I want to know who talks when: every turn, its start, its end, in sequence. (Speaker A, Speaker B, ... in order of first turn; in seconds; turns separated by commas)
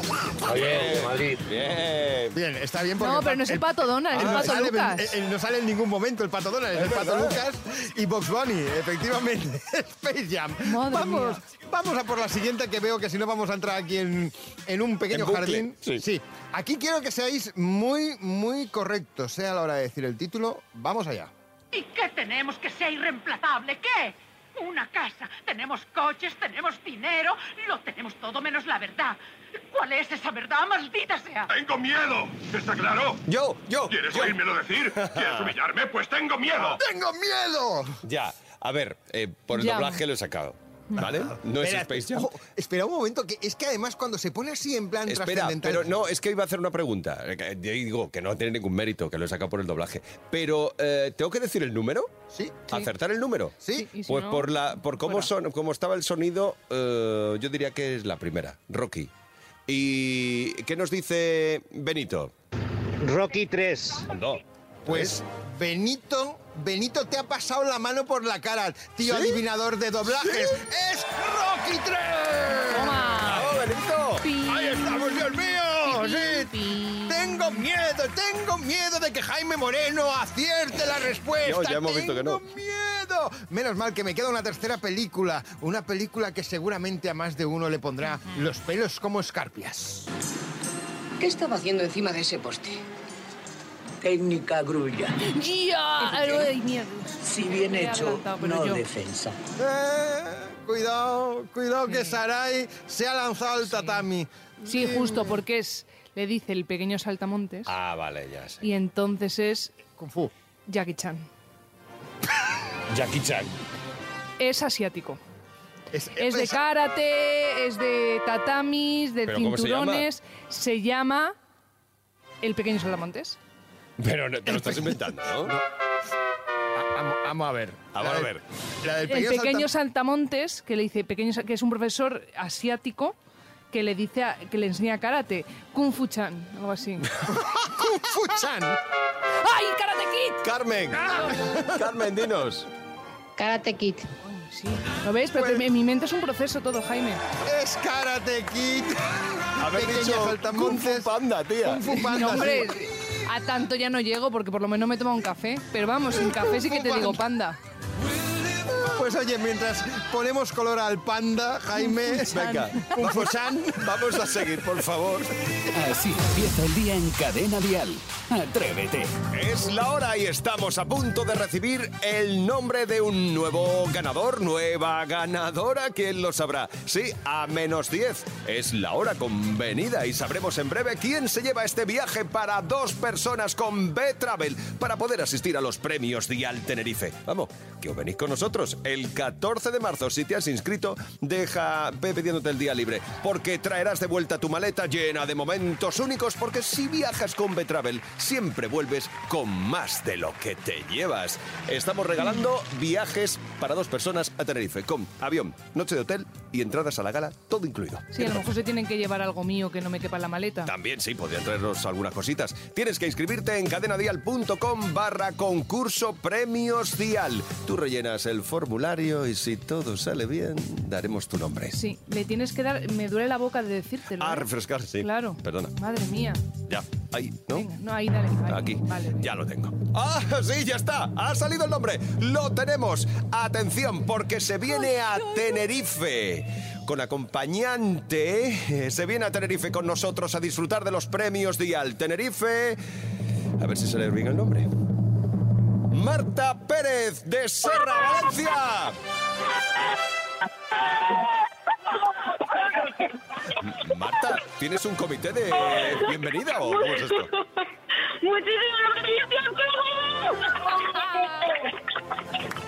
Speaker A: 0.4-1.6, Speaker B: 0.4-2.4, Speaker C: 2.3-21.3, Speaker D: 3.0-5.1, Speaker B: 4.2-4.5, Speaker B: 6.8-7.3, Speaker D: 10.6-11.4, Speaker B: 15.1-16.0, Speaker E: 21.7-29.2, Speaker E: 29.7-31.5, Speaker F: 31.5-33.2, Speaker B: 33.3-34.4, Speaker F: 33.9-36.8, Speaker B: 35.0-35.5, Speaker C: 36.8-38.0, Speaker B: 38.0-42.3, Speaker D: 39.5-40.0, Speaker C: 41.0-45.9, Speaker B: 45.1-52.1, Speaker C: 52.3-52.6, Speaker B: 52.7-59.1, Speaker C: 53.6-53.9, Speaker D: 53.7-55.3, Speaker B: 59.7-62.3, Speaker A: 63.0-64.1, Speaker B: 64.1-65.2, Speaker C: 64.8-73.1, Speaker B: 69.0-69.4, Speaker B: 70.2-70.5, Speaker D: 72.7-73.5, Speaker B: 73.2-74.2, Speaker D: 74.2-75.2, Speaker C: 74.4-90.1, Speaker D: 75.8-77.6, Speaker B: 81.4-82.4, Speaker G: 91.2-92.8, Speaker G: 94.0-95.1, Speaker D: 95.2-98.8, Speaker G: 96.0-96.5, Speaker G: 97.2-99.4, Speaker C: 99.5-105.3, Speaker D: 101.8-102.2, Speaker D: 103.6-104.0, Speaker D: 104.7-107.7, Speaker B: 107.7-108.6, Speaker D: 108.6-109.7, Speaker C: 110.0-110.3, Speaker D: 110.7-111.2, Speaker B: 112.9-113.5, Speaker D: 114.4-115.2, Speaker C: 115.9-116.6, Speaker D: 116.2-121.3, Speaker B: 119.3-120.0, Speaker D: 122.4-123.4, Speaker B: 124.0-125.5, Speaker C: 124.5-124.8, Speaker C: 126.8-129.7, Speaker B: 127.9-128.4, Speaker D: 129.1-133.2, Speaker D: 133.7-137.1, Speaker C: 137.5-138.8, Speaker D: 139.4-140.4, Speaker B: 140.4-142.7, Speaker C: 141.3-141.6, Speaker G: 143.4-144.0, Speaker D: 144.2-147.2, Speaker C: 147.4-151.1, Speaker B: 149.6-151.9, Speaker C: 151.6-152.8, Speaker D: 151.8-157.6, Speaker C: 156.2-157.2, Speaker C: 158.8-164.4, Speaker D: 161.8-163.0, Speaker B: 162.3-165.3, Speaker H: 165.7-169.1, Speaker B: 169.3-208.4, Speaker D: 208.1-210.7, Speaker B: 210.7-221.8, Speaker D: 221.7-224.5, Speaker B: 224.2-225.7, Speaker D: 225.0-226.4, Speaker B: 226.7-227.7, Speaker D: 227.5-229.3, Speaker B: 228.5-242.8, Speaker D: 234.7-235.6, Speaker B: 243.6-244.7, Speaker B: 245.9-249.0, Speaker I: 250.8-251.2, Speaker B: 253.6-257.3, Speaker I: 255.5-257.6, Speaker I: 258.2-261.7, Speaker D: 260.9-261.5